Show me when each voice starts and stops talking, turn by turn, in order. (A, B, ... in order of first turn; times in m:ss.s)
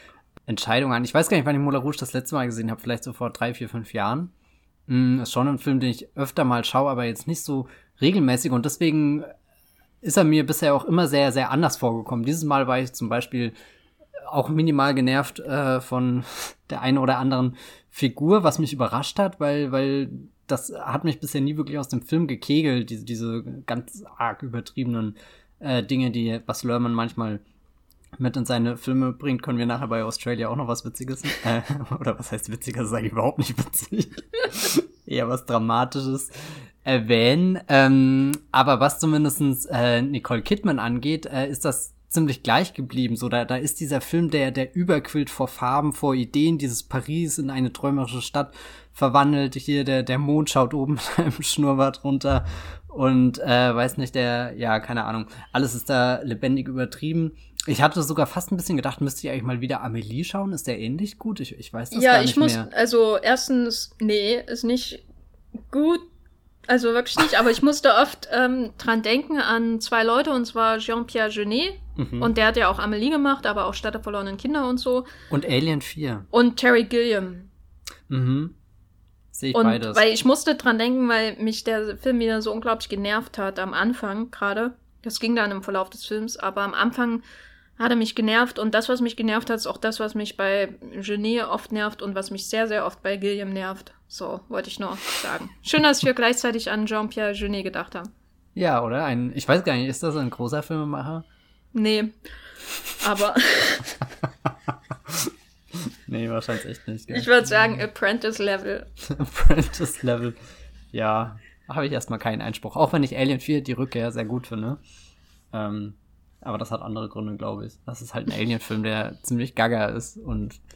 0:00.5-0:04.3 A
0:04.9-0:09.3 A
0:10.0-0:13.5 A
0:14.2-0:27.4 A
0:28.2-1:02.7 A
1:01.9-1:05.0 B
1:05.7-1:06.0 B
1:06.7-1:15.1 B
1:12.0-1:12.3 A
1:15.3-1:16.3 A
1:16.3-1:17.5 B
1:18.1-1:18.6 A
1:19.3-1:20.0 A
1:19.5-1:27.2 B
1:27.8-1:38.1 B
1:38.5-1:41.2 A
1:41.7-1:42.1 B
1:43.0-1:44.0 B
1:44.9-1:47.3 A
1:47.1-1:48.9 B
1:49.0-1:50.3 A
1:50.9-1:54.8 A
1:55.5-2:00.6 A